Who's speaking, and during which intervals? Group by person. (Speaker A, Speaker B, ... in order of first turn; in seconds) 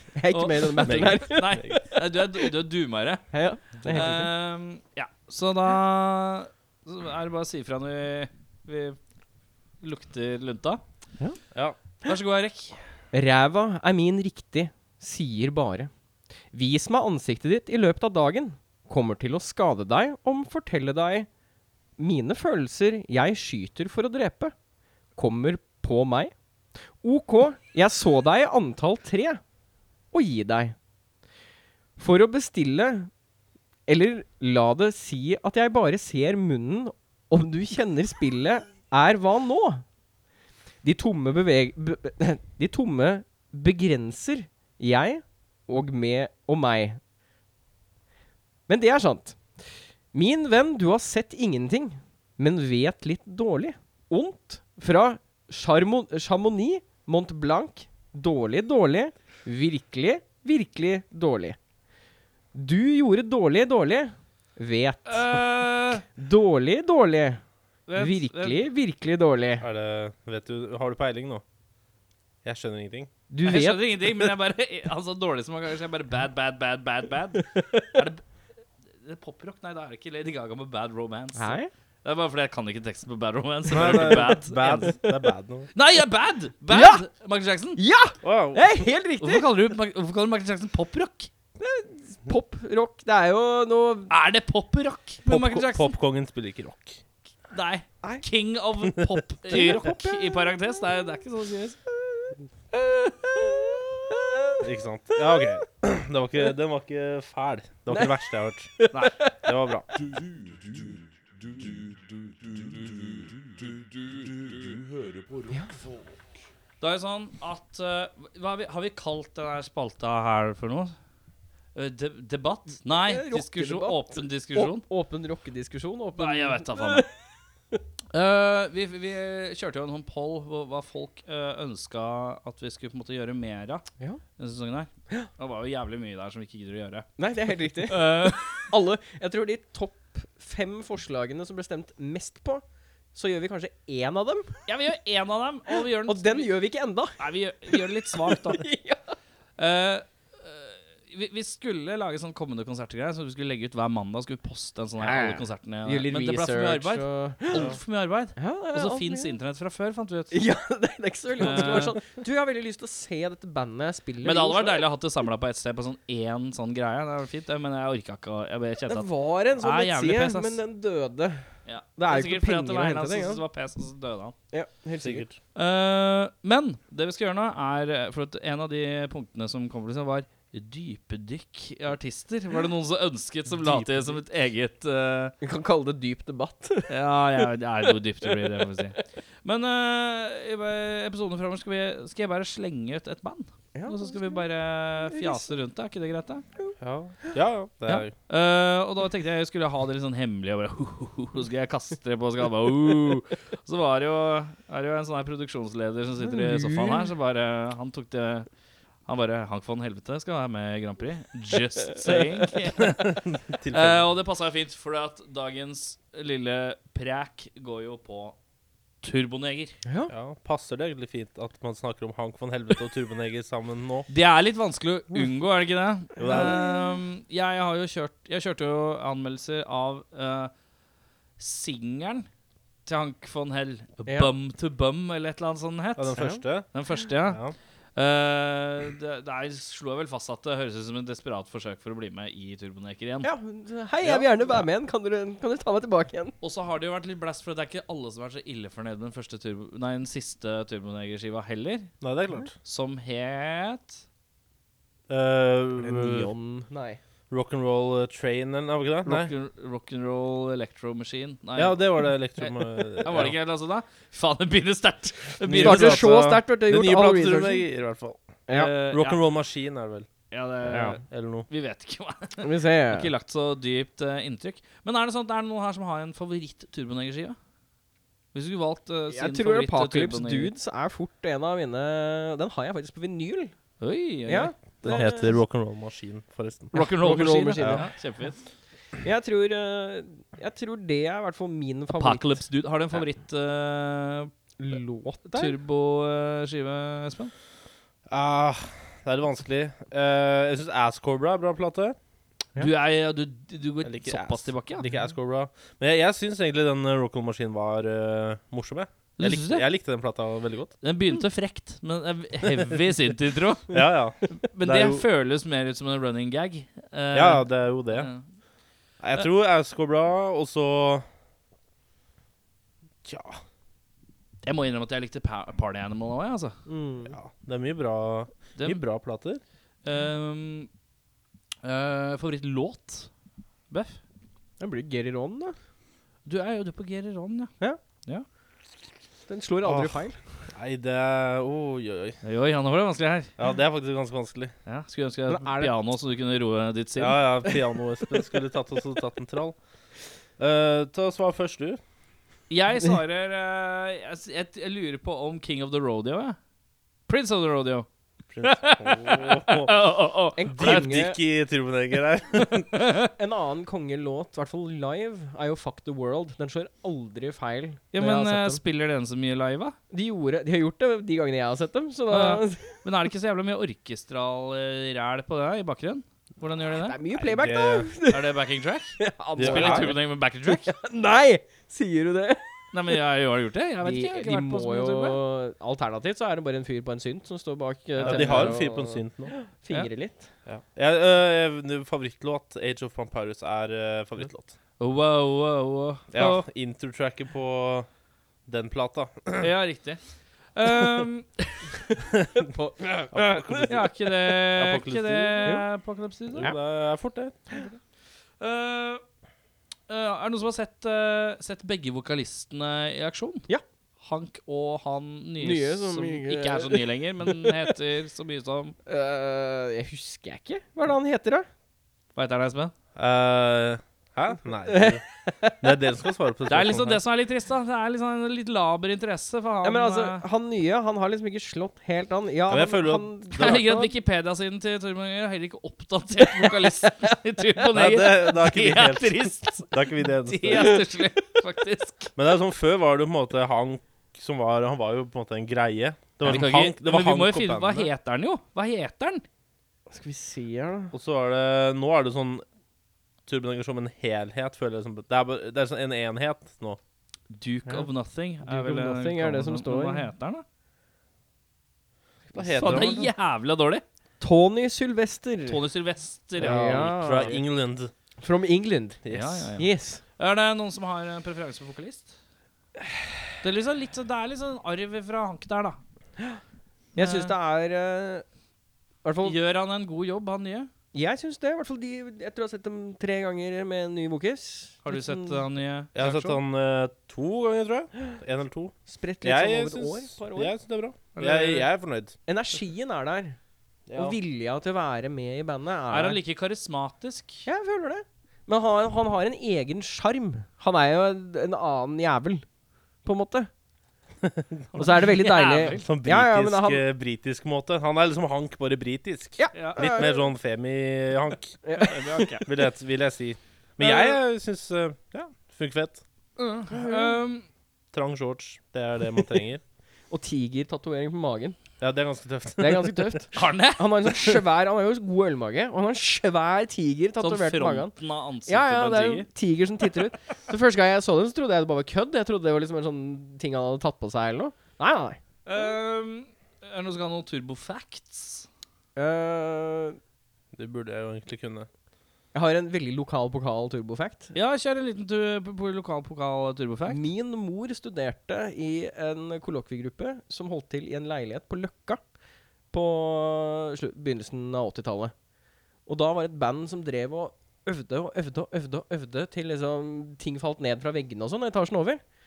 Speaker A: 0.1-1.9, 3.3-4.3, 13.1-15.9, 16.5-21.3, 22.0-24.5, 25.2-26.3, 27.0-29.4, 30.1-30.8, 32.0-33.1, 33.9-39.9, 40.8-47.0, 48.7-49.4, 50.1-61.6, 62.5-65.4, 66.1-67.4, 68.0-69.6, 73.3-74.3, 77.4-77.9, 81.4-81.7, 83.8-84.1, 86.7-87.1, 87.8-89.5, 91.6-94.1, 99.5-100.5, 103.1-104.6, 107.9-108.2, 108.8-109.4, 122.9-127.1, 137.2-142.6, 143.1-144.6, 146.1-147.2, 147.7-149.1, 155.0-157.7, 158.4-159.3, 160.3-164.9, 168.9-171.5, 172.0-173.4, 174.5-175.2, 185.4-186.9, 193.8-194.4, 195.1-195.5, 206.2-207.1, 219.9-220.1, 226.2-226.8, 236.2-236.4, 243.2-246.3, 255.8-257.0, 265.5-267.7, 270.7-270.9, 272.4-273.1, 279.1-283.5, 284.3-285.4, 286.7-287.9, 289.0-292.4, 294.6-295.6, 326.7-327.2, 334.6-335.6, 339.3-340.2, 345.3-345.7, 360.4-361.2, 363.1-368.6, 369.9-372.8, 376.8-378.3, 379.0-382.5, 383.8-390.3, 402.4-403.7, 415.4-417.5, 418.9-421.5, 424.7-425.6, 429.6-433.9, 449.9-450.9, 458.4-460.1, 462.3-463.1, 464.2-465.6, 466.4-467.4, 468.2-469.0, 469.6-470.0, 477.0-478.2, 479.0-479.4, 480.9-485.4, 488.9-490.6, 492.3-493.4, 493.9-496.2, 497.5-502.4, 503.1-503.5, 504.8-506.9, 509.4-510.2, 511.6-512.5, 513.8-514.2, 516.7-517.2, 520.1-521.6, 522.6-527.9, 528.5-535.2, 539.0-540.0, 542.3-544.3, 546.9-552.0, 552.7-555.1, 555.9-562.0
Speaker B: 0.3-9.0, 9.8-10.8, 12.1-12.8, 65.1-66.0, 67.9-68.6, 73.5-78.2, 79.0-84.9, 85.8-87.8, 89.2-91.3, 94.1-95.9, 97.5-101.8, 116.8-120.9, 121.8-124.8, 126.2-127.1, 128.1-133.9, 134.4-137.1, 137.9-138.7, 144.7-146.5, 147.2-148.6, 149.6-160.4, 161.4-162.0, 164.2-170.6, 171.7-174.3, 175.6-185.3, 186.9-196.4, 197.9-208.5, 209.1-218.3, 219.0-219.8, 224.1-230.5, 231.4-232.3, 232.9-237.4, 238.0-243.3, 246.4-251.9, 252.6-254.0, 259.1-266.2, 268.6-269.2, 270.3-277.4, 278.3-280.5, 283.8-285.0, 286.7-288.4, 291.9-294.3, 295.3-297.3, 302.6-304.9, 309.2-309.7, 310.8-313.8, 314.3-318.2, 324.4-326.6, 329.9-330.7, 331.6-333.1, 333.7-334.0, 336.3-337.5, 342.2-343.3, 344.7-347.2, 352.5-356.4, 357.1-357.9, 358.4-360.9, 362.4-363.1, 367.9-369.8, 372.1-377.0, 378.1-380.7, 382.7-385.2, 388.0-388.6, 394.8-396.4, 399.4-400.0, 400.6-401.6, 403.6-406.5, 408.4-409.0, 409.9-413.5, 414.0-418.8, 422.1-422.7, 426.5-430.2, 433.4-442.1, 446.2-449.2, 457.3-460.4, 462.6-463.8, 465.5-466.9, 469.1-472.1, 473.4-475.8, 476.9-477.3, 479.2-480.7, 484.9-486.4, 491.1-491.7, 495.9-497.5, 504.7-505.9, 509.5-510.1, 511.7-512.5, 516.4-517.5, 523.3-524.1, 527.2-529.3, 535.5-538.5, 544.3-547.0
Speaker C: 0.8-1.8, 69.6-71.4, 72.5-73.1, 83.7-85.7, 88.2-88.8, 95.3-97.0, 99.0-99.7, 104.6-108.7, 109.4-109.9, 175.0-175.4, 183.5-184.2, 196.8-198.1, 212.8-214.1, 220.1-224.1, 226.2-226.6, 236.0-236.7, 237.3-237.6, 252.0-252.5, 255.1-256.3, 257.3-259.3, 261.6-263.3, 265.5-270.1, 271.0-271.5, 284.8-287.9, 298.1-302.0, 303.8-310.7, 312.5-312.7, 313.7-315.1, 317.1-318.1, 319.0-321.1, 323.1-323.4, 327.1-329.4, 339.6-342.2, 343.4-344.5, 347.0-349.6, 350.4-351.8, 358.3-359.7, 360.6-362.7, 377.2-377.9, 379.4-380.0, 388.0-389.3, 390.5-394.6, 396.1-397.9, 398.5-399.5, 402.1-402.5, 403.1-405.5, 406.4-407.4, 423.0-425.0, 425.6-427.0, 432.5-433.7, 437.7-440.8, 442.2-447.9, 450.9-452.4, 453.3-456.8, 462.3-463.0, 466.4-467.9, 469.0-469.5, 485.9-492.1, 493.9-494.2, 504.2-504.7, 505.8-511.6, 512.5-516.0, 517.9-519.6, 521.8-523.2, 540.5-541.7
Speaker D: 110.5-111.0, 111.5-112.0, 112.5-113.3, 114.1-116.0